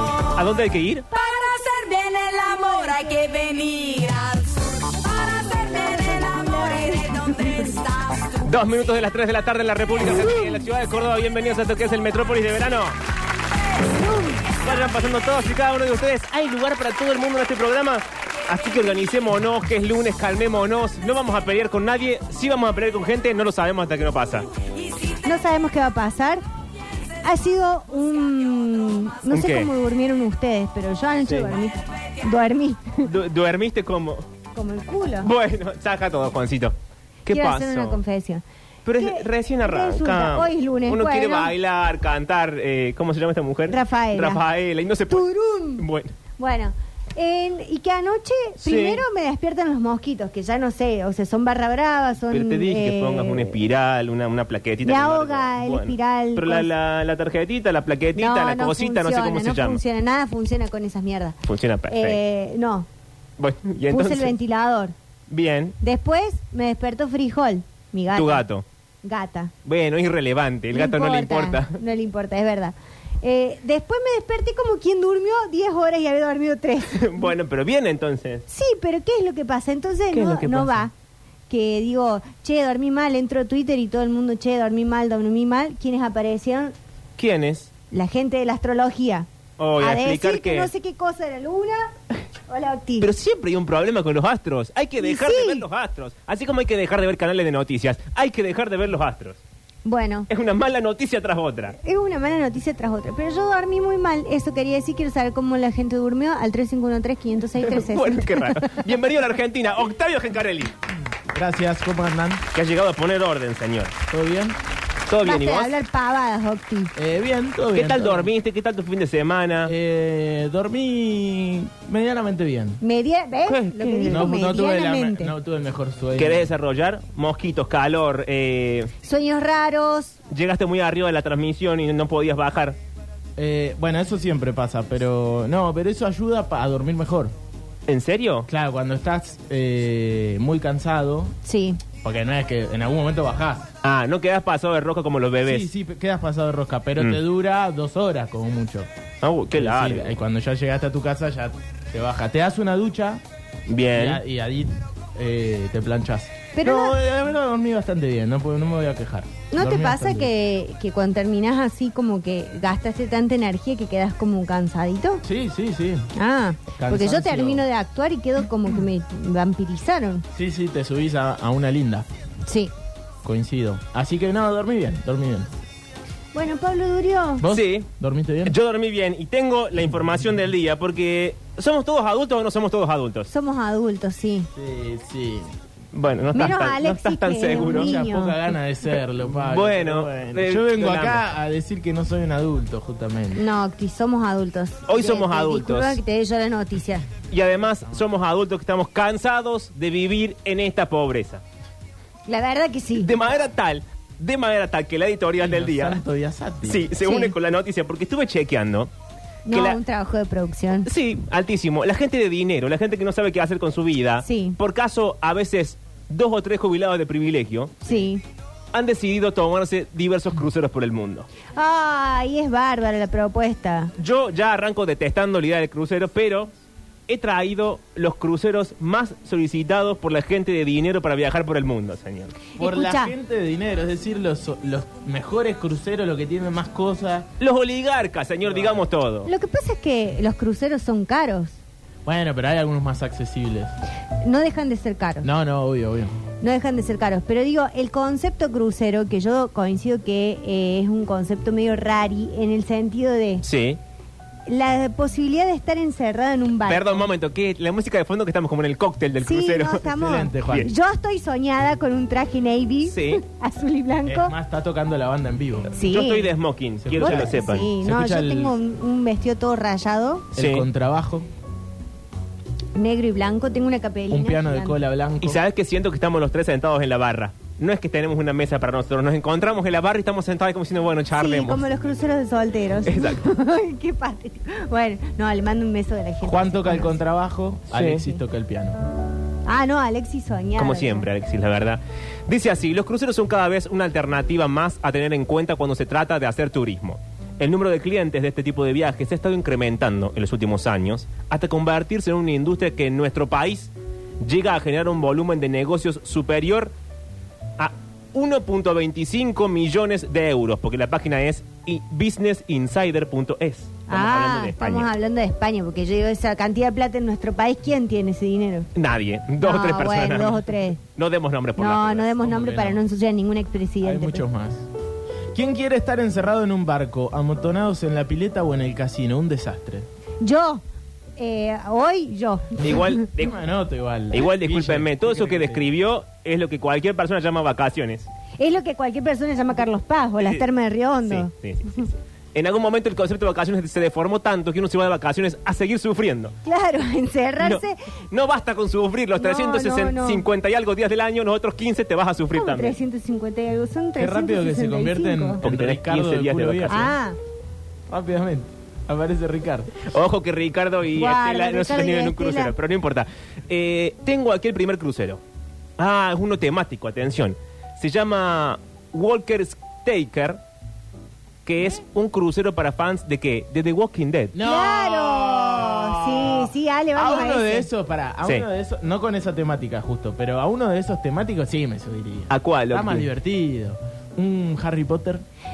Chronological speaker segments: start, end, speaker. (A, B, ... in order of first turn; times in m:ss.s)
0:00.4-0:01.1 A
0:01.1-0:08.5 B
0:08.4-0:13.0 A
0:10.1-0:10.5 C
0:14.0-0:14.4 C
0:14.5-0:24.5 A
0:24.9-0:25.3 B
0:25.2-0:26.4 C
0:27.2-0:33.1 C
0:29.3-0:29.7 A
0:31.2-0:31.5 A
0:33.0-0:34.2 A
0:34.5-0:35.3 C
0:35.2-0:36.8 A
0:37.3-0:38.0 A
0:37.3-0:38.4 C
0:38.8-0:45.3 A
0:39.0-0:41.5 C
0:43.7-0:44.4 C
0:45.1-0:45.8 C
0:45.8-0:46.1 A
0:46.4-0:53.6 C
0:48.6-0:49.0 A
0:52.3-0:59.8 A
0:54.8-0:56.7 C
0:58.2-1:01.4 C
1:01.5-1:02.2 A
1:01.9-1:02.9 C
1:03.4-1:04.4 A
1:03.9-1:04.9 C
1:05.3-1:05.8 A
1:05.8-1:08.4 C
1:08.2-1:08.6 A
1:09.0-1:09.5 C
1:09.6-1:11.8 A
1:10.7-1:17.3 C
1:16.9-1:18.4 A
1:18.5-1:20.9 C
1:20.1-1:20.9 A
1:21.5-1:26.7 C
1:27.2-1:27.7 A
1:27.9-1:29.3 C
1:29.6-1:30.7 A
1:29.8-1:31.9 C
1:32.5-1:33.1 C
1:33.0-1:39.4 A
1:35.0-1:35.6 C
1:39.8-1:40.3 C
1:40.3-1:41.8 A
1:41.8-1:48.6 C
1:47.6-1:50.7 A
1:51.3-1:52.4 D
1:52.5-1:53.9 A
1:54.1-1:54.6 D
1:55.1-1:55.7 A
1:55.2-1:56.9 C
1:57.0-1:58.3 D
1:57.8-1:59.7 A
1:59.6-2:02.8 D
2:02.8-2:05.3 C
2:03.5-2:04.2 A
2:04.1-2:06.5 D
2:06.2-2:08.9 A
2:09.0-2:10.2 C
2:10.3-2:12.8 A
2:13.4-2:17.3 D
2:17.9-2:18.5 A
2:18.5-2:21.3 D
2:21.4-2:21.8 C
2:22.0-2:23.7 D
2:23.8-2:25.7 A
2:25.4-2:28.9 D
2:29.2-2:30.1 A
2:29.6-2:33.2 D
2:33.7-2:34.2 A
2:33.9-2:40.3 D
2:36.5-2:37.0 C
2:39.5-2:45.2 C
2:45.2-2:46.1 D
2:46.2-2:50.3 C
2:46.8-2:47.6 D
2:50.3-2:52.1 D
2:52.5-2:52.7 C
2:53.2-2:55.5 D
2:56.3-2:57.4 C
2:57.4-2:58.6 D
2:57.5-2:57.9 A
2:58.5-3:03.3 A
3:03.3-3:04.5 C
3:04.5-3:05.5 D
3:05.9-3:07.9 A
3:06.4-3:08.4 C
3:07.5-3:13.4 D
3:09.4-3:11.2 A
3:13.4-3:17.1 C
3:14.9-3:16.0 A
3:17.3-3:21.4 A
3:22.3-3:23.1 C
3:23.0-3:26.0 A
3:25.4-3:26.9 D
3:26.7-3:28.9 A
3:27.0-3:27.3 C
3:29.5-3:30.9 C
3:29.5-3:29.8 A
3:30.9-3:37.8 A
3:34.2-3:34.6 C
3:37.8-3:38.2 C
3:38.7-3:41.3 A
3:41.6-3:43.9 C
3:44.0-3:46.5 A
3:47.1-3:52.4 A
3:52.6-3:53.1 C
3:52.6-3:57.3 D
3:57.4-3:59.3 A
3:58.4-3:58.9 D
3:59.3-4:01.6 C
4:02.1-4:03.7 D
4:04.2-4:05.3 C
4:05.2-4:06.2 D
4:06.4-4:13.4 C
4:13.4-4:13.8 A
4:14.5-4:17.1 C
4:16.7-4:19.9 A
4:19.2-4:24.3 C
4:19.9-4:20.7 D
4:22.9-4:23.2 A
4:24.0-4:25.7 D
4:25.8-4:26.3 C
4:25.8-4:27.7 A
4:26.8-4:28.5 D
4:27.0-4:30.3 C
4:30.4-4:30.7 A
4:30.4-4:31.3 D
4:32.8-4:34.8 C
4:34.1-4:35.4 D
4:35.2-4:41.6 A
4:41.2-4:47.0 C
4:42.9-4:43.2 A
4:46.2-4:48.8 D
4:47.7-4:48.0 A
4:49.5-4:51.1 C
4:50.6-5:03.7 A
5:04.2-5:06.7 A
5:07.6-5:14.9 A
5:13.9-5:18.7 C
5:18.8-5:22.1 A
5:19.4-5:20.8 C
5:21.6-5:24.2 C
5:22.2-5:22.8 D
5:23.8-5:24.7 D
5:25.3-5:29.9 D
5:30.2-5:30.6 C
5:31.2-5:33.0 C
5:32.6-5:33.4 A
5:33.2-5:35.6 D
5:34.1-5:38.1 A
5:38.4-5:41.8 C
5:40.2-5:40.5 A
5:41.0-5:46.4 A
5:46.4-5:47.8 C
5:47.4-5:52.8 A
5:49.2-5:50.2 C
5:52.3-5:55.4 C
5:54.0-5:56.9 D
5:55.4-5:56.9 A
5:56.7-5:57.2 C
5:57.9-5:59.8 D
5:59.9-6:05.2 A
6:00.9-6:02.5 C
6:05.8-6:10.4 A
6:11.4-6:14.3 A
6:14.3-6:25.2 D
6:14.4-6:17.7 C
6:22.3-6:23.1 A